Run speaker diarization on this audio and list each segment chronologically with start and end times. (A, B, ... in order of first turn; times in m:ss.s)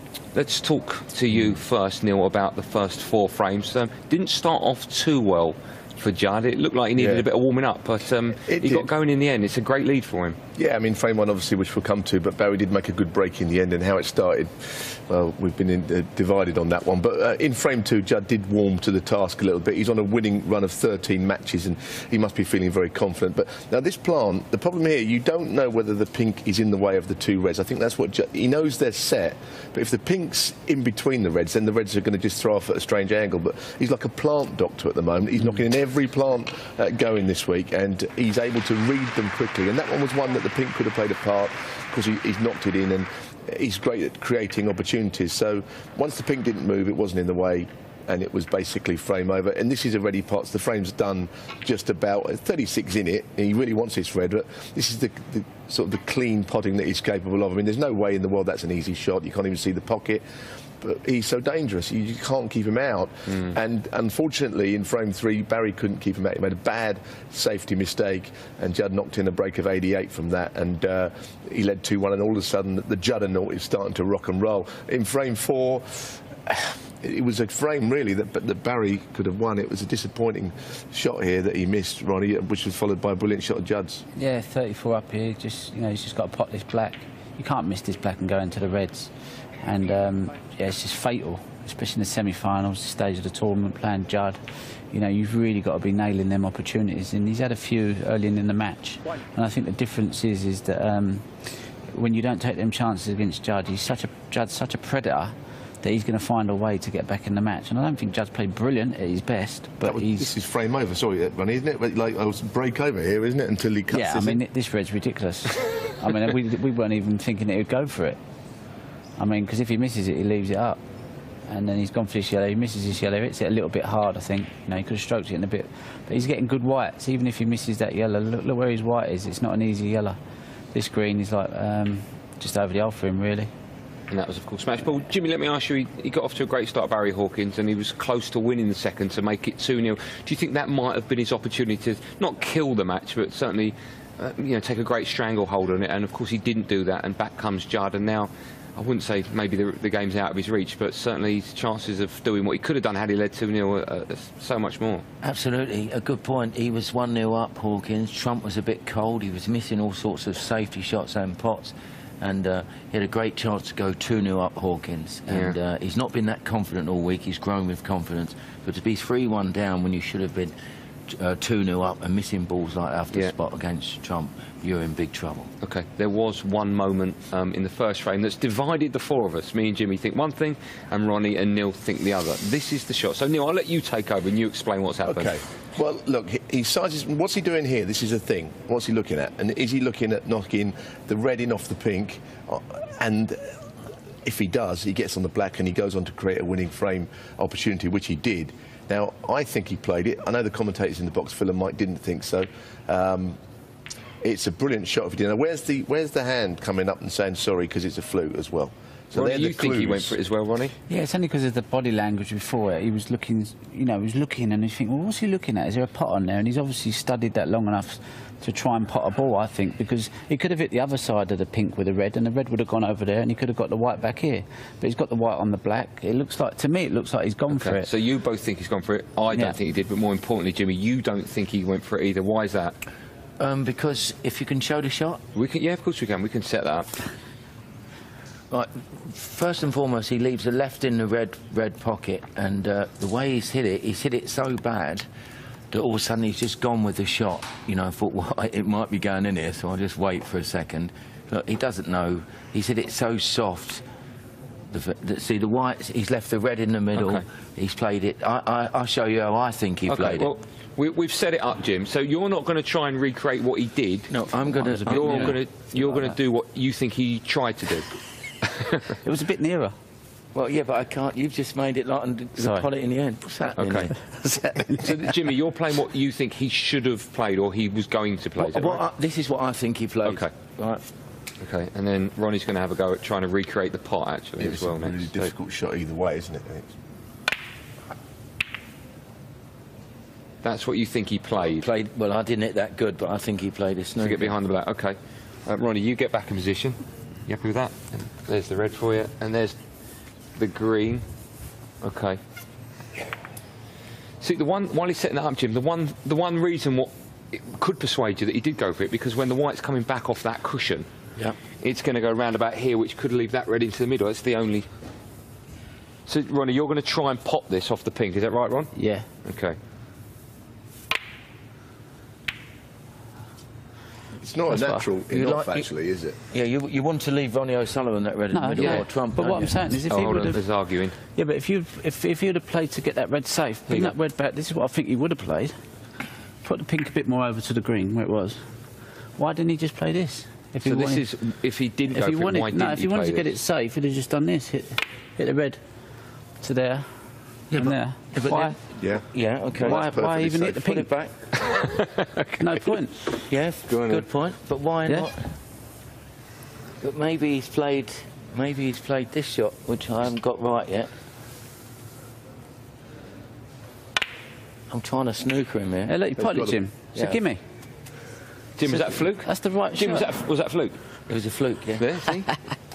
0:00.3-0:10.4 A
0:07.0-0:07.3 B
0:08.5-0:08.9 B
0:10.6-1:00.2 B
1:00.8-1:24.0 B
1:24.2-1:41.3 C
1:41.9-1:50.3 C
1:49.8-1:54.4 B
1:53.9-1:58.2 C
1:59.2-2:00.8 C
2:01.5-2:10.2 C
2:10.7-2:13.5 C
2:14.1-2:35.0 A
2:35.2-2:50.6 D
2:45.3-2:45.6 A
2:51.1-2:55.5 D
2:55.6-3:05.4 A
3:05.1-3:13.6 B
3:14.2-3:23.4 B
3:24.2-3:30.2 B
3:29.1-3:30.7 A
3:30.9-3:47.9 C
3:47.5-3:52.8 A
3:49.3-3:49.6 C
3:53.4-3:55.2 D
3:55.4-3:56.9 A
3:58.5-4:05.1 D
4:05.7-4:13.8 D
4:14.7-4:20.3 D
4:17.0-4:17.2 A
4:19.9-4:28.8 A
4:24.1-4:25.4 D
4:24.6-4:25.4 C
4:28.9-4:29.8 C
4:30.3-4:34.7 D
4:32.4-4:32.7 C
4:33.5-4:33.9 A
4:34.2-4:34.8 C
4:34.8-4:38.8 A
4:38.4-4:40.8 D
4:40.0-4:40.3 A
4:41.4-4:45.3 A
4:44.4-4:46.7 B
4:50.4-4:51.7 A
4:51.4-4:54.4 D
4:54.0-4:59.6 A
5:00.4-5:01.0 A
5:01.8-5:02.2 A
5:04.2-5:10.9 A
5:11.6-5:14.7 A
5:16.1-5:19.6 A
5:18.8-5:19.1 C
5:24.2-5:26.2 B
5:24.5-5:24.9 C
5:25.1-5:25.7 D
5:26.3-5:29.7 D
5:28.3-5:30.4 C
5:28.6-5:28.8 A
5:29.9-5:31.0 A
5:31.1-5:35.6 C
5:36.4-5:38.5 C
5:39.2-5:41.1 C
5:40.6-5:43.3 A
5:41.9-5:45.6 C
5:46.4-5:46.9 C
5:47.5-5:51.2 D
5:47.5-5:48.6 C
5:48.8-5:50.6 B
5:49.6-5:50.9 C
5:51.4-5:52.5 A
5:52.4-5:53.3 C
5:53.3-5:55.4 D
5:53.7-5:54.0 B
5:56.8-6:00.9 D
6:04.7-6:06.0 D
6:05.9-6:07.4 C
6:06.2-6:06.6 B
6:07.0-6:07.2 D
6:08.6-6:10.8 A
6:08.7-6:10.1 C
6:11.1-6:11.9 D
6:11.8-6:12.3 A